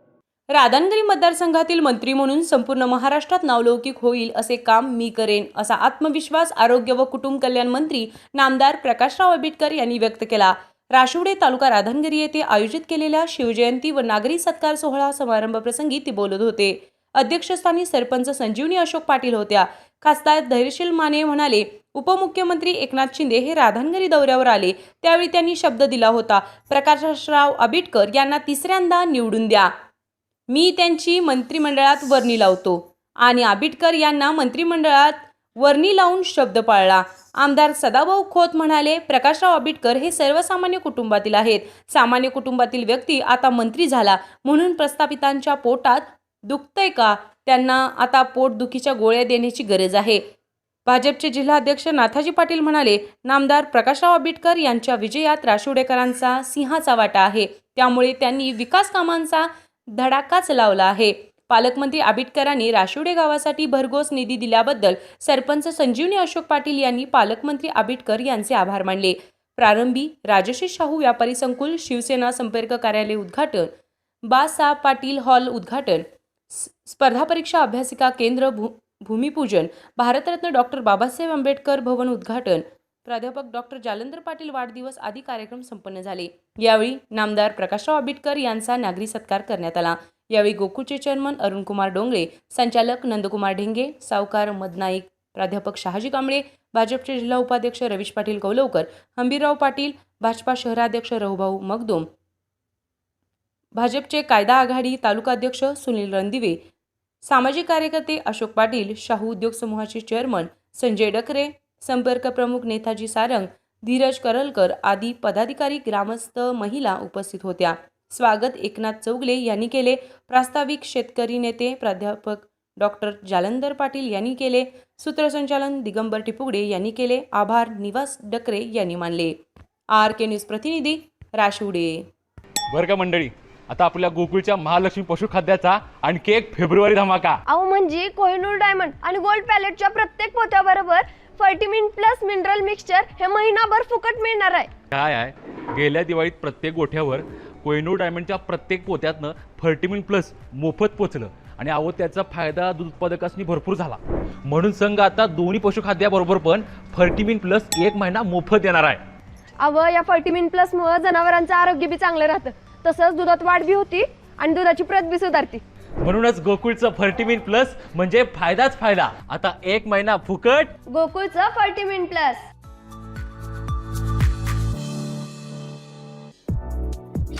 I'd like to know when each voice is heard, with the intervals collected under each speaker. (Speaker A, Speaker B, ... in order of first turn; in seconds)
Speaker A: 0.5-29.7, 30.5-50.2, 50.9-73.7, 74.2-102.1, 103.7-106.6, 107.2-129.3, 129.9-132.1
Speaker B: 132.7-137.4, 144.9-159.0, 166.0-170.7
Speaker C: 137.5-144.7, 159.6-165.6, 170.9-172.4